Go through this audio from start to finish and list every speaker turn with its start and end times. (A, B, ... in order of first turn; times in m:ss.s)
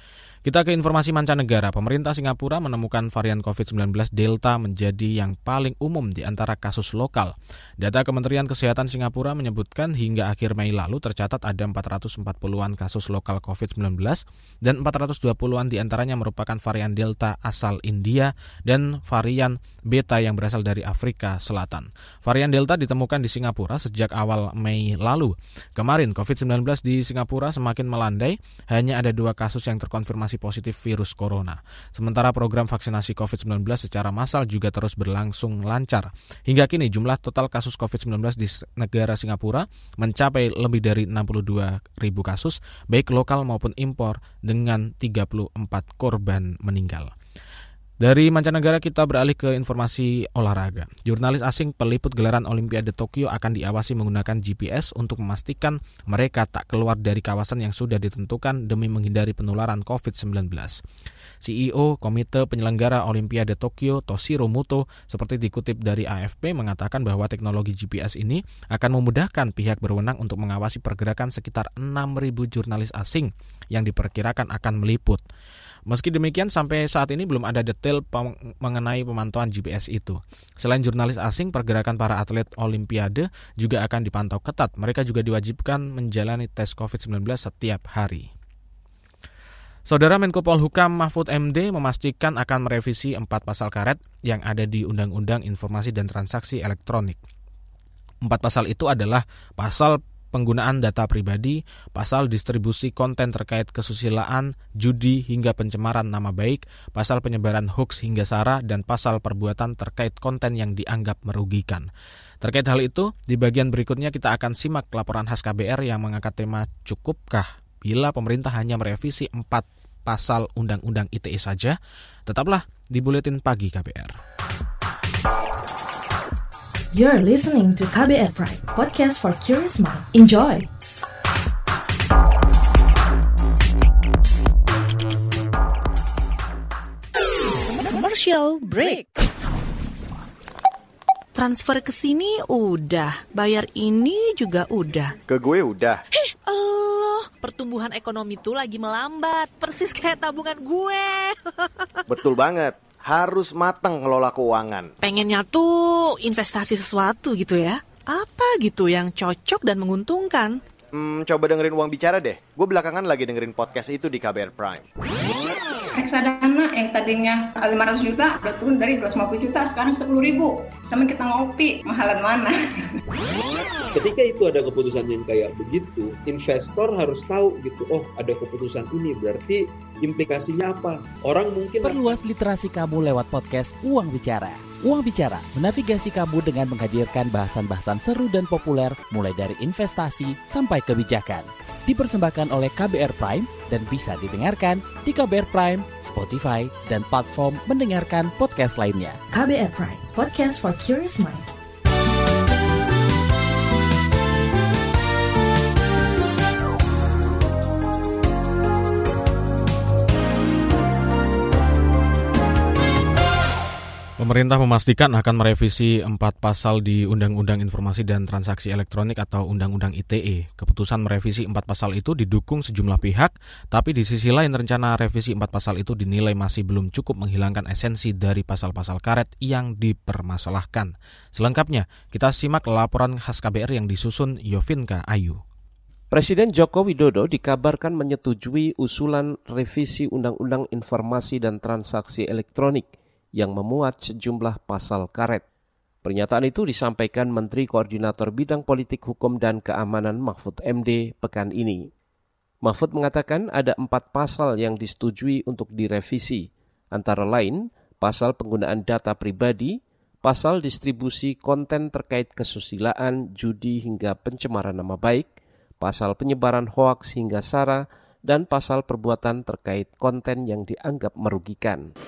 0:00.4-0:47.1 A
0:48.0-1:00.8 A
1:01.4-1:15.2 A
1:15.9-1:28.3 A
1:29.9-1:37.2 A
1:38.2-1:51.9 A
1:52.4-2:01.8 A
2:02.3-2:04.1 A
2:06.9-2:10.7 B
2:17.8-2:19.0 C
2:21.4-2:25.1 C
2:25.3-2:26.0 D
2:26.2-2:31.3 C
2:32.1-2:34.9 D
2:35.0-2:40.5 C
2:41.0-2:44.9 D
2:46.0-2:52.8 E
2:54.0-3:02.2 F
3:01.8-3:19.2 G
3:19.3-3:21.5 B
3:34.2-3:55.4 A
3:56.1-4:05.4 H
4:06.0-4:11.9 H
4:12.6-4:25.3 H
4:25.8-4:31.8 H